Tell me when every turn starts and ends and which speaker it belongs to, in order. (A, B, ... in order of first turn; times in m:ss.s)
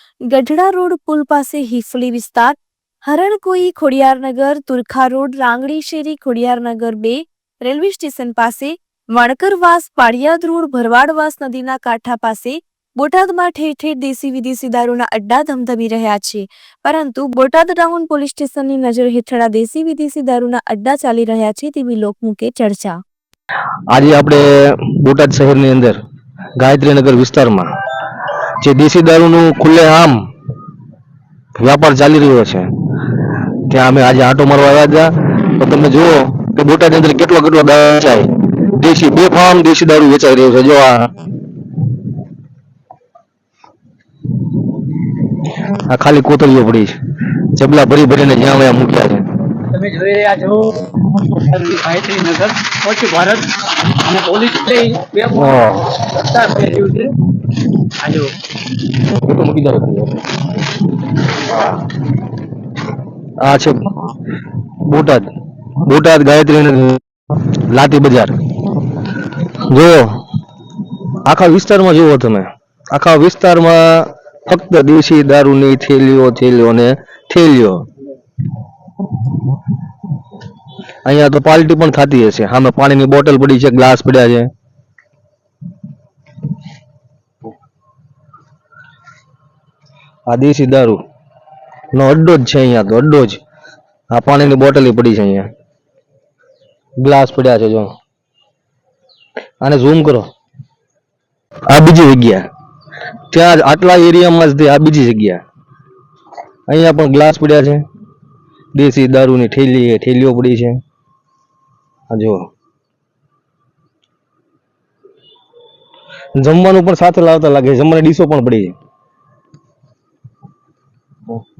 0:00.3-0:23.0 A
0:23.9-0:26.0 B
0:26.6-0:27.7 B
0:28.6-0:30.3 B
0:31.6-0:32.7 B
0:33.7-0:41.1 B
0:45.7-0:49.3 B
0:49.6-0:57.1 C
0:55.3-0:55.9 B
0:58.0-0:58.3 C
0:58.9-1:00.3 B
1:03.4-1:04.0 B
1:04.8-1:05.3 B
1:05.8-1:08.4 B
1:09.7-1:10.2 B
1:11.2-1:17.9 B
1:21.0-1:24.5 B
1:30.3-1:31.0 B
1:31.9-1:33.4 B
1:34.1-1:35.5 B
1:37.0-1:38.0 B
1:39.6-1:40.3 B
1:41.7-1:42.5 B
1:43.3-1:45.4 B
1:46.7-1:47.8 B
1:48.7-1:50.8 B
1:52.1-1:52.5 B
1:56.4-1:58.8 B